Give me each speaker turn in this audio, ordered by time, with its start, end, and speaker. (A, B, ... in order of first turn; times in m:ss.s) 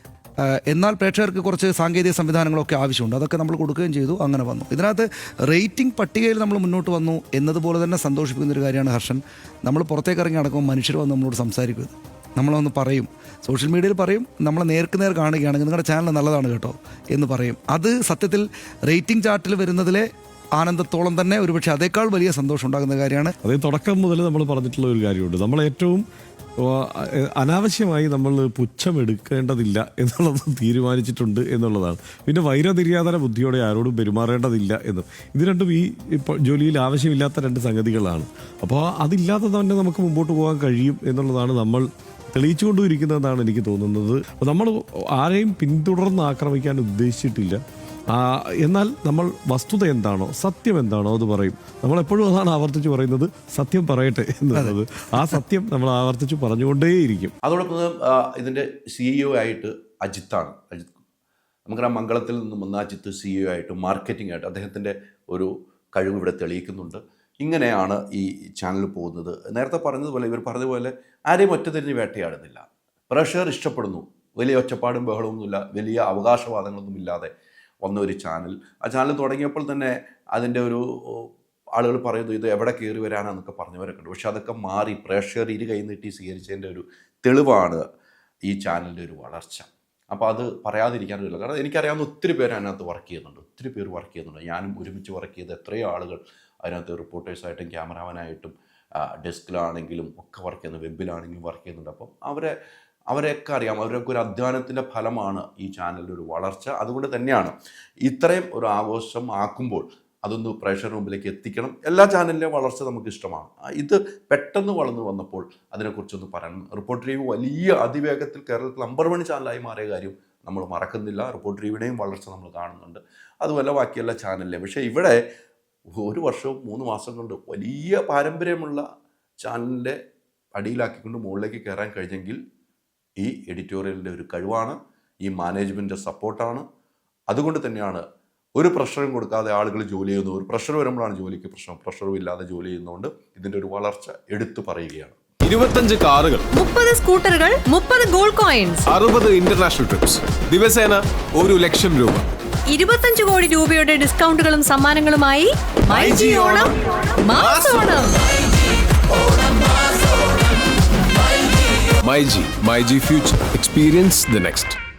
0:00.7-0:20.0 A
0:20.6-0:23.3 A
0:23.4-0:26.0 B
0:26.6-0:47.6 B
0:48.1-0:57.3 B
0:54.5-0:55.4 A
0:57.4-1:00.9 C
1:01.7-1:17.3 C
1:17.8-1:27.8 C
1:28.4-1:42.6 C
1:43.1-2:05.2 C
2:06.0-2:08.8 C
2:09.4-2:10.0 C
2:10.6-2:12.4 C
2:13.2-2:16.6 C
2:17.3-2:18.0 C
2:18.6-2:25.2 C
2:25.4-2:26.5 D
2:26.6-2:28.8 E
2:28.9-2:32.3 D
2:32.7-2:38.2 E
2:35.9-2:36.7 D
2:37.4-2:37.9 D
2:42.0-2:44.8 D